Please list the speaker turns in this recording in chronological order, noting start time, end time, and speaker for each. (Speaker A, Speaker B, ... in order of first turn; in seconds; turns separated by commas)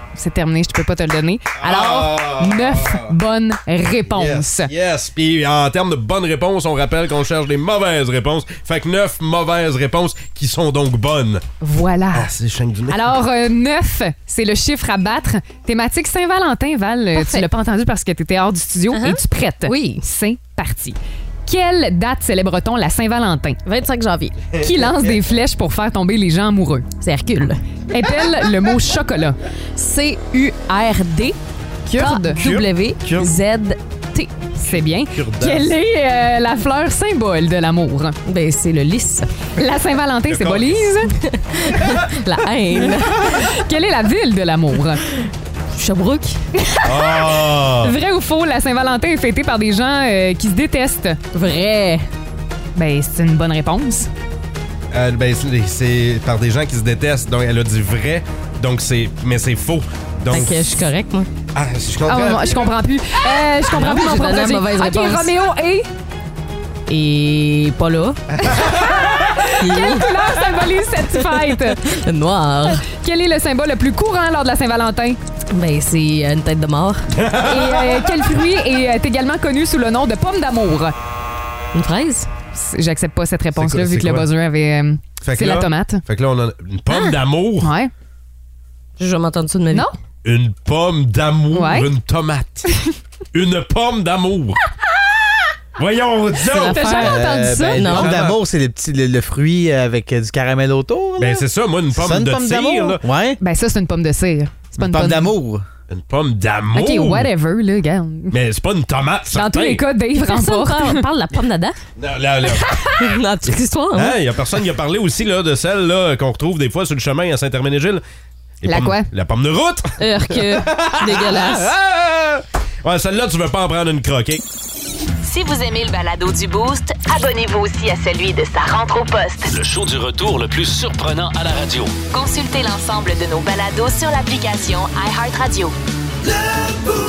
Speaker A: 0.1-4.7, Speaker B: 1.6-3.1, Speaker B: 4.1-11.4, Speaker A: 11.6-12.3, Speaker B: 12.1-13.1, Speaker A: 12.9-23.6, Speaker C: 17.1-17.5, Speaker C: 18.9-20.0, Speaker C: 23.6-24.4, Speaker B: 24.5-25.2, Speaker A: 24.6-26.9, Speaker C: 27.0-27.6, Speaker A: 27.9-29.4, Speaker C: 29.8-30.7, Speaker A: 30.3-31.3, Speaker A: 31.9-32.4, Speaker C: 31.9-34.5, Speaker B: 32.3-33.3, Speaker A: 34.6-38.1, Speaker B: 34.7-35.7, Speaker C: 38.2-39.3, Speaker A: 39.6-41.1, Speaker B: 40.3-40.8, Speaker C: 41.3-43.4, Speaker A: 43.1-45.0, Speaker C: 45.7-46.4, Speaker A: 46.6-47.2, Speaker B: 46.8-47.9, Speaker A: 47.8-51.2, Speaker C: 51.3-52.0, Speaker A: 52.8-54.1, Speaker B: 54.9-60.8, Speaker C: 60.3-61.3, Speaker B: 61.5-62.7, Speaker A: 62.1-65.9, Speaker C: 63.7-65.3, Speaker C: 66.9-68.2, Speaker B: 68.4-69.2, Speaker A: 68.5-71.8, Speaker C: 69.6-72.8, Speaker A: 72.7-75.2, Speaker C: 75.5-77.1, Speaker B: 77.1-78.2, Speaker A: 77.4-80.9, Speaker C: 81.7-82.3, Speaker A: 82.5-86.0, Speaker B: 83.6-84.2, Speaker B: 85.2-87.7, Speaker A: 87.6-87.9, Speaker C: 89.0-89.8, Speaker B: 90.2-92.7, Speaker A: 91.5-91.9, Speaker B: 93.3-94.6, Speaker B: 95.8-97.2, Speaker A: 96.5-97.8, Speaker D: 96.8-103.4, Speaker C: 97.8-98.2, Speaker B: 97.8-98.4, Speaker B: 101.2-103.0, Speaker A: 103.4-105.3, Speaker D: 104.8-105.6, Speaker B: 105.9-107.3, Speaker A: 106.7-108.3, Speaker B: 108.3-109.8, Speaker A: 109.3-111.0, Speaker C: 110.2-111.8, Speaker B: 112.0-112.8, Speaker A: 112.5-113.0, Speaker C: 112.9-114.2, Speaker B: 113.9-118.0, Speaker B: 118.6-124.4, Speaker A: 118.7-119.1, Speaker C: 120.0-121.7, Speaker E: 125.2-129.5, Speaker F: 129.5-131.9, Speaker E: 132.1-135.7